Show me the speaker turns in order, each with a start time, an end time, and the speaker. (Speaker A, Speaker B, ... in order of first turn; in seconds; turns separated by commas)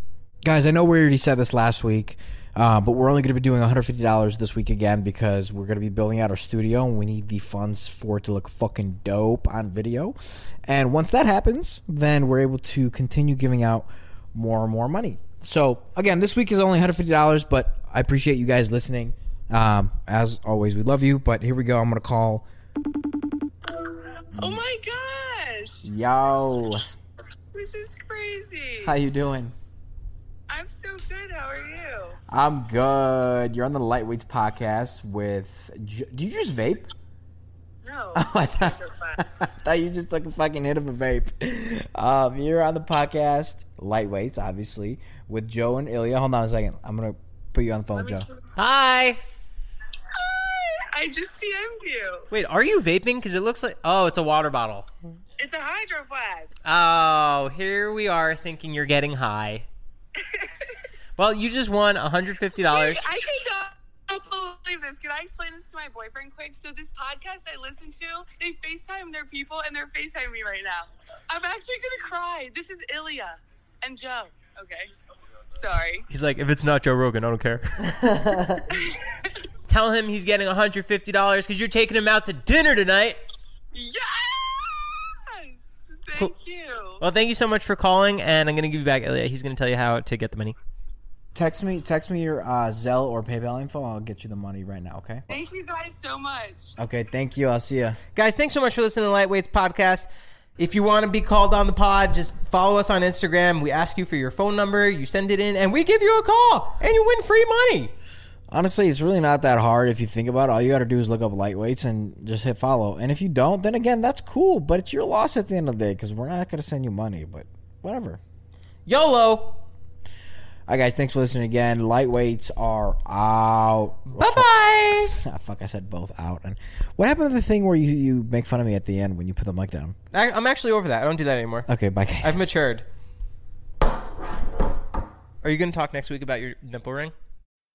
Speaker A: 0.4-10.1, Speaker A: 10.7-22.4, Speaker B: 23.8-25.9, Speaker A: 25.8-26.8, Speaker B: 27.5-28.9, Speaker A: 28.8-29.5, Speaker B: 30.5-32.2, Speaker A: 32.3-36.9, Speaker B: 37.8-39.4, Speaker A: 38.1-48.3, Speaker B: 48.0-48.4, Speaker C: 48.6-49.2, Speaker B: 50.1-52.3, Speaker C: 52.3-54.9, Speaker B: 55.4-56.5, Speaker C: 56.6-59.6, Speaker B: 60.2-60.7, Speaker C: 61.2-63.1, Speaker B: 62.7-74.9, Speaker B: 75.5-76.0, Speaker C: 76.1-78.0, Speaker A: 78.0-78.6, Speaker C: 79.7-83.2, Speaker B: 83.7-87.0, Speaker C: 87.0-90.5, Speaker A: 91.3-95.3, Speaker B: 95.3-96.8, Speaker A: 96.8-98.0, Speaker C: 98.1-107.9, Speaker A: 108.5-118.2, Speaker C: 118.9-119.6, Speaker A: 120.7-124.5, Speaker C: 124.1-125.2, Speaker A: 125.1-129.9, Speaker C: 130.1-131.7, Speaker A: 131.7-132.4, Speaker C: 132.2-132.8, Speaker C: 135.4-137.1